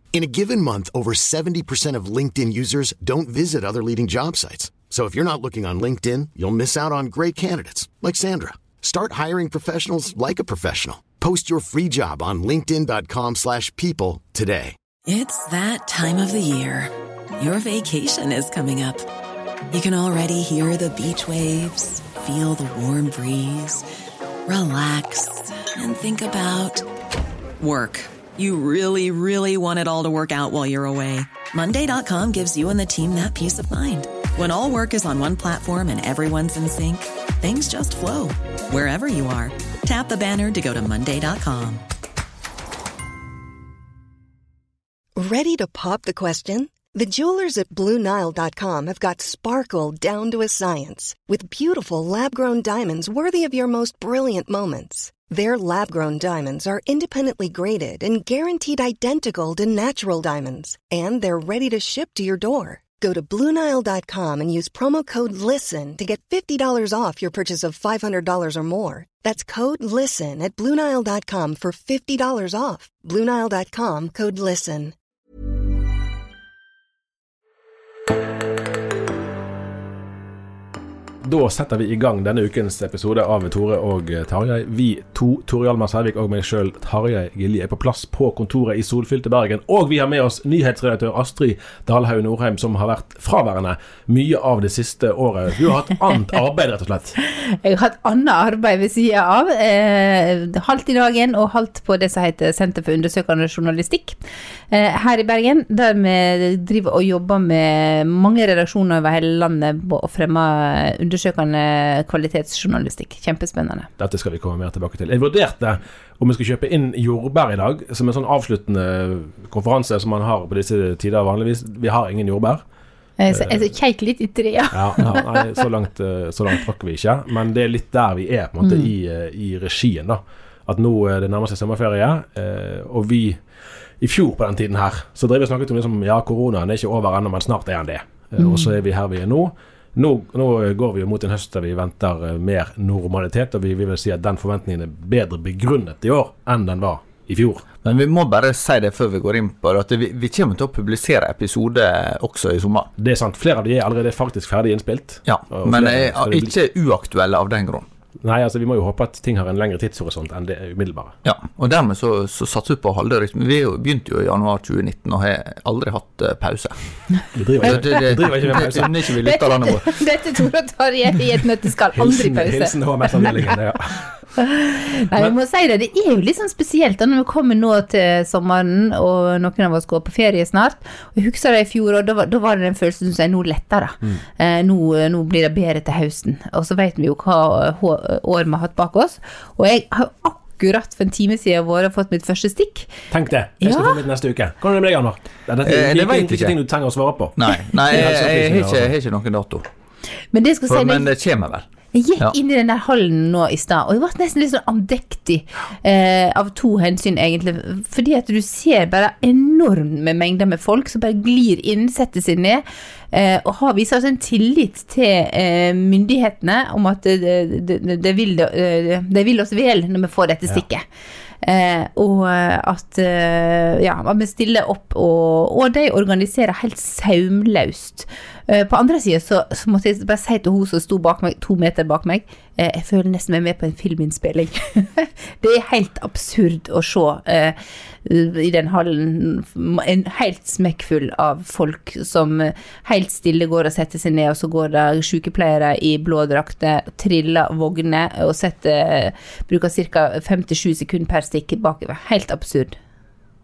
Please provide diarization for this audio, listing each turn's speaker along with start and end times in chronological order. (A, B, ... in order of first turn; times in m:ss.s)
0:00.1-0:14.8 A
0:15.1-0:19.1 B
0:19.7-0:23.8 B
0:24.5-0:26.8 B
0:27.6-0:41.8 B
0:45.2-1:15.0 C
1:21.2-1:37.2 D
1:37.2-1:44.2 E
1:44.7-1:53.9 E
1:54.0-2:02.6 D
2:03.2-2:05.2 E
2:03.3-2:03.7 D
2:04.7-2:13.4 D
2:08.6-2:08.9 E
2:14.0-2:27.6 D
2:18.4-2:18.7 E
2:27.8-2:32.9 F
2:33.0-2:36.6 D
2:35.3-2:37.9 F
2:38.2-2:41.2 D
2:41.2-2:46.8 F
2:47.4-2:49.0 D
2:47.6-2:50.0 F
2:49.2-2:53.3 E
2:52.0-2:54.2 D
2:54.4-3:13.0 E
3:13.1-3:18.9 D
3:13.6-3:14.0 E
3:15.6-3:16.6 F
3:17.4-3:19.7 F
3:20.3-3:21.1 E
3:20.7-3:21.7 F
3:21.9-3:40.8 E
3:41.4-4:12.8 E